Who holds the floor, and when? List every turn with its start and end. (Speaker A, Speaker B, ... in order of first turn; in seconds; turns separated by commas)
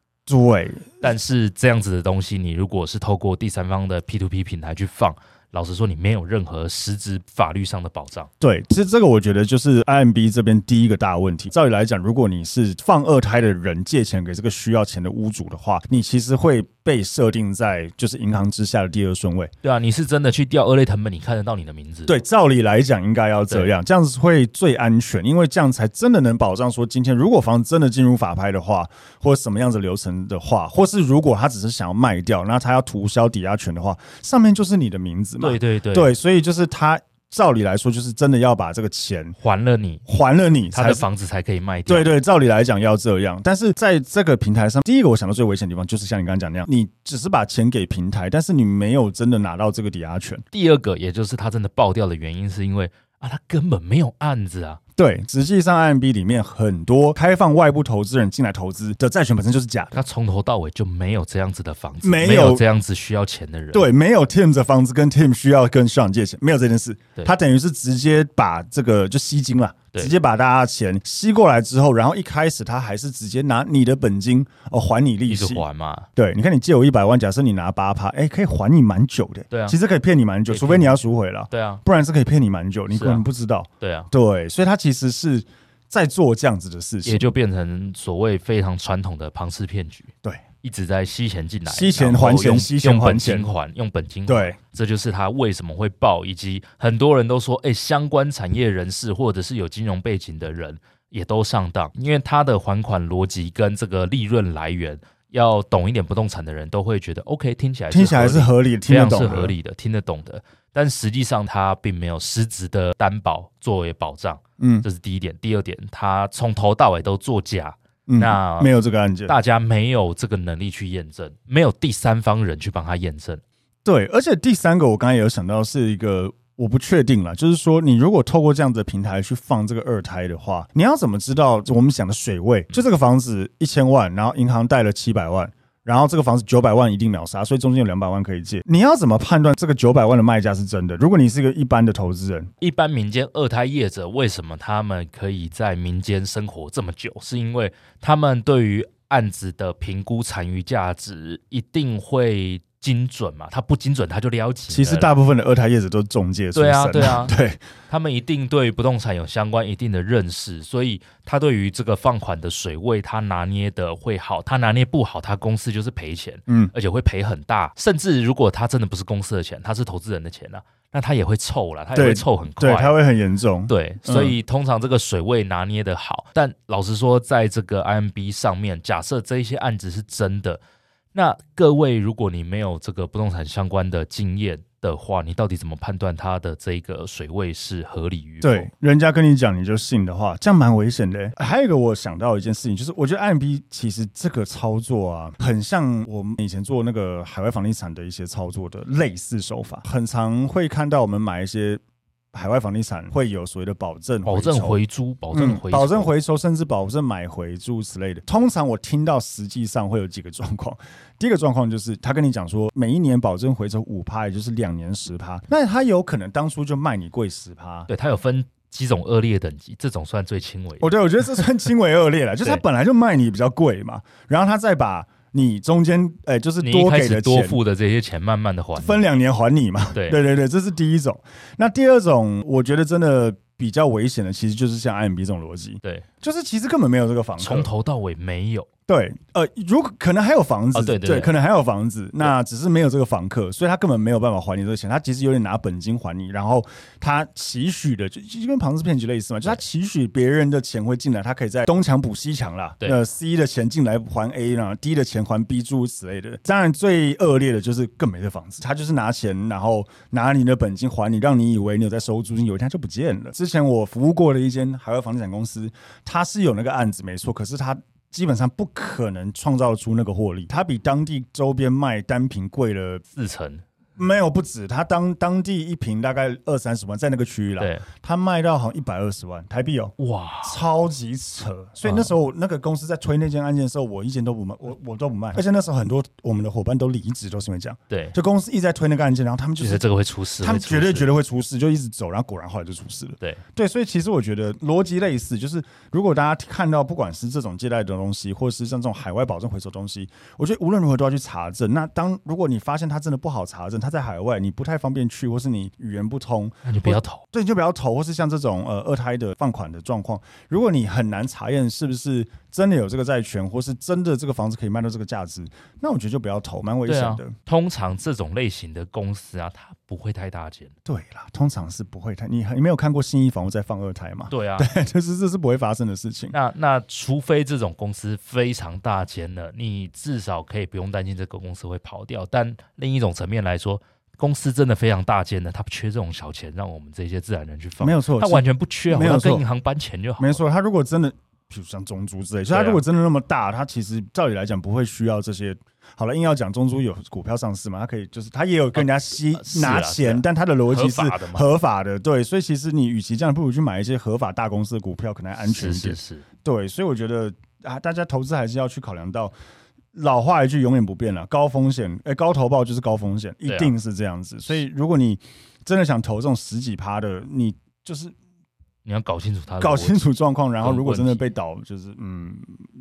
Speaker A: 0.3-1.1, Speaker B: 1.0-8.3, Speaker A: 8.4-19.5, Speaker B: 19.6-22.2, Speaker A: 22.1-39.4, Speaker B: 35.4-36.1, Speaker B: 39.4-40.0, Speaker A: 40.0-41.1, Speaker B: 40.7-42.1, Speaker A: 41.9-50.4, Speaker B: 50.5-54.8, Speaker A: 55.0-59.9, Speaker B: 59.9-63.9, Speaker A: 62.0-62.6, Speaker A: 63.7-75.6, Speaker B: 75.3-76.1, Speaker A: 76.2-87.3, Speaker B: 79.5-79.8, Speaker B: 80.5-81.8, Speaker B: 82.9-83.2, Speaker B: 83.8-84.1, Speaker B: 87.0-90.1, Speaker B: 90.6-118.7, Speaker A: 91.7-93.5, Speaker A: 94.2-94.6, Speaker A: 107.9-109.5, Speaker A: 114.6-114.9, Speaker A: 118.1-119.3, Speaker B: 119.2-123.4, Speaker A: 123.8-142.5, Speaker B: 142.6-155.1, Speaker A: 154.7-157.6, Speaker B: 156.5-157.4, Speaker B: 157.9-173.0, Speaker A: 166.5-166.7, Speaker A: 171.9-174.3, Speaker B: 173.7-180.6, Speaker B: 181.1-188.7, Speaker A: 188.4-201.8, Speaker A: 202.3-204.8, Speaker B: 204.2-206.1, Speaker A: 205.3-217.9, Speaker B: 217.9-220.9, Speaker A: 220.8-227.6, Speaker B: 226.6-229.0, Speaker A: 228.8-237.7, Speaker B: 229.9-230.2, Speaker B: 237.4-238.7, Speaker A: 238.9-273.0, Speaker B: 240.7-241.3, Speaker B: 273.1-273.6, Speaker A: 274.0-289.9, Speaker B: 277.6-277.9, Speaker B: 280.0-280.6, Speaker B: 281.8-282.1, Speaker B: 287.9-288.1, Speaker B: 289.6-291.1, Speaker A: 290.4-317.3, Speaker B: 306.6-307.2, Speaker B: 316.9-320.7, Speaker A: 320.9-326.4, Speaker B: 324.3-324.7, Speaker B: 326.3-340.4, Speaker A: 337.8-339.4, Speaker A: 340.2-359.3, Speaker B: 342.5-342.8, Speaker B: 348.7-351.4, Speaker B: 355.4-356.2, Speaker A: 359.9-368.1, Speaker B: 363.5-363.7, Speaker B: 368.8-370.0, Speaker A: 369.6-372.6, Speaker B: 370.6-371.2